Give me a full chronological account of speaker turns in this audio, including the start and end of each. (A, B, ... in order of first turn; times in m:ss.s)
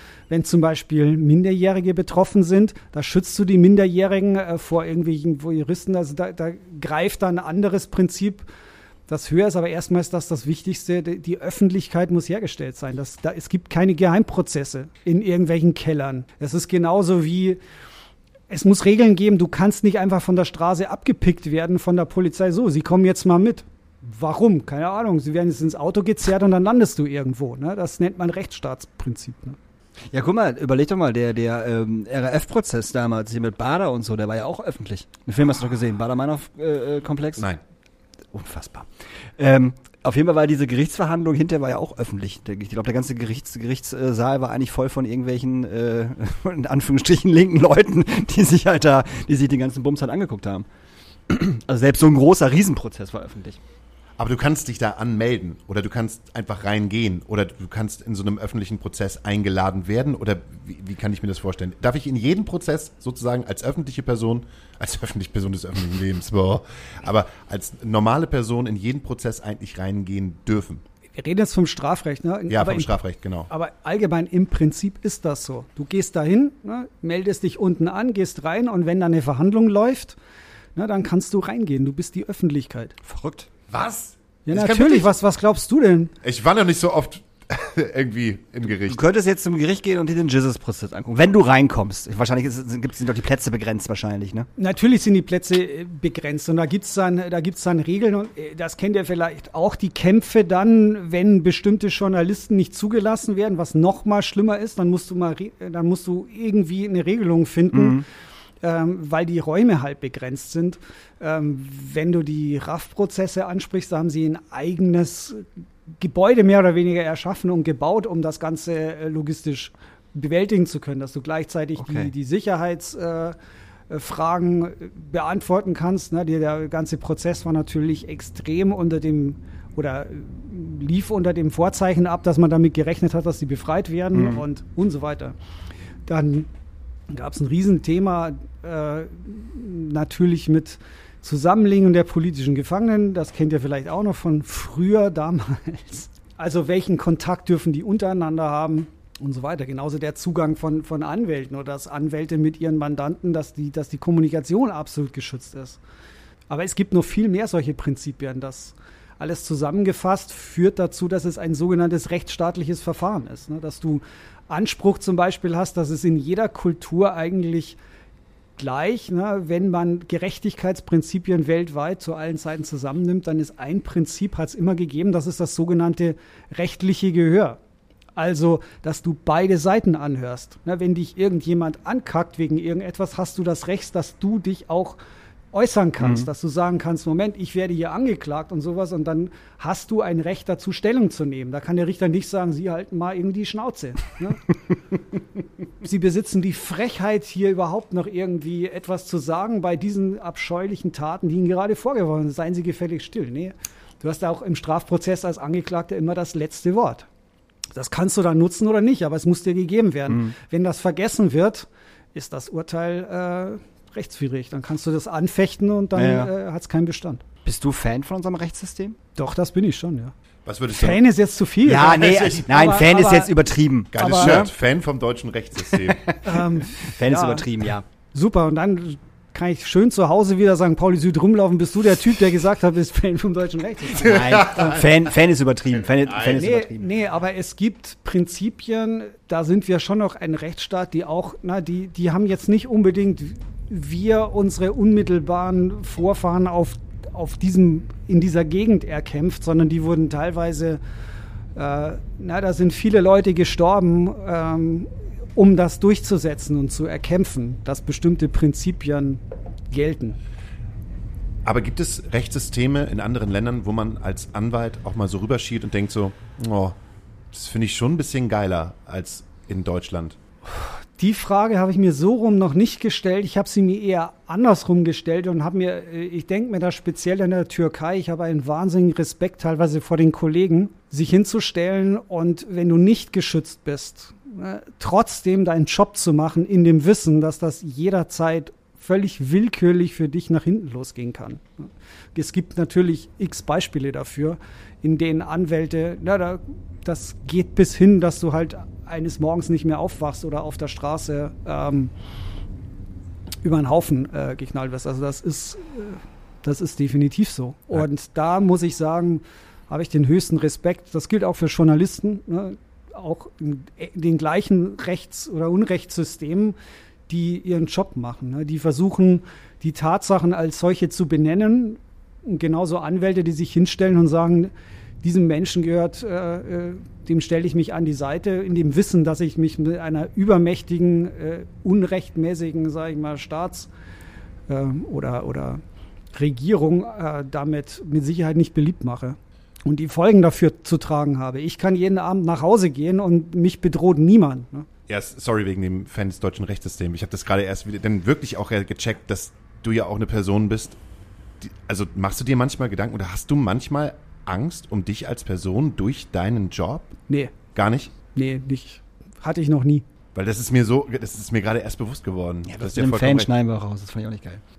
0:00.3-0:08.4 A
0:09.1-0:17.6 A
0:18.5-0:29.6 A
0:30.1-0:37.5 B
0:38.3-0:50.6 B
0:51.3-0:53.6 B
0:54.2-1:10.8 C
1:11.2-1:12.9 A
1:12.5-1:13.5 C
1:13.5-1:20.2 A
1:20.8-1:23.0 A
1:23.0-1:23.5 B
1:23.7-1:25.1 C
1:24.4-1:26.1 A
1:26.2-1:29.0 C
1:28.8-1:34.5 B
1:34.6-1:48.0 A
1:47.7-1:48.0 B
1:48.6-1:55.5 A
1:56.0-2:03.4 A
2:01.8-2:02.1 B
2:03.9-2:15.3 A
2:14.2-2:14.4 B
2:16.1-2:16.5 A
2:17.1-2:35.8 A
2:36.5-2:47.8 A
2:48.6-2:57.6 A
2:58.2-3:05.0 A
3:05.5-3:14.4 A
3:15.8-3:27.1 A
3:27.7-3:37.2 A
3:30.1-3:30.3 B
3:35.9-3:36.3 B
3:37.4-3:39.0 B
3:39.2-3:40.1 A
3:40.4-3:41.0 C
3:40.7-3:43.3 A
3:41.6-3:44.5 B
3:41.7-3:42.4 C
3:43.9-3:46.0 C
3:44.0-3:44.4 A
3:46.2-3:47.4 A
3:46.8-3:47.8 B
3:48.1-3:54.1 A
3:53.9-3:55.1 C
3:54.0-3:56.9 B
3:55.7-3:56.4 C
3:56.3-4:10.8 A
4:11.6-4:20.2 A
4:21.4-4:26.8 C
4:27.3-4:30.2 C
4:30.5-5:01.9 A
5:03.4-5:16.6 A
5:17.1-5:24.5 A
5:25.0-5:33.7 A
5:34.5-5:35.6 A
5:36.1-5:44.7 A
5:44.9-5:50.8 C
5:51.4-5:57.0 C
5:57.1-5:57.3 A
5:57.5-5:57.9 C
5:58.1-5:59.8 A
6:00.1-6:03.3 C
6:02.5-6:04.4 B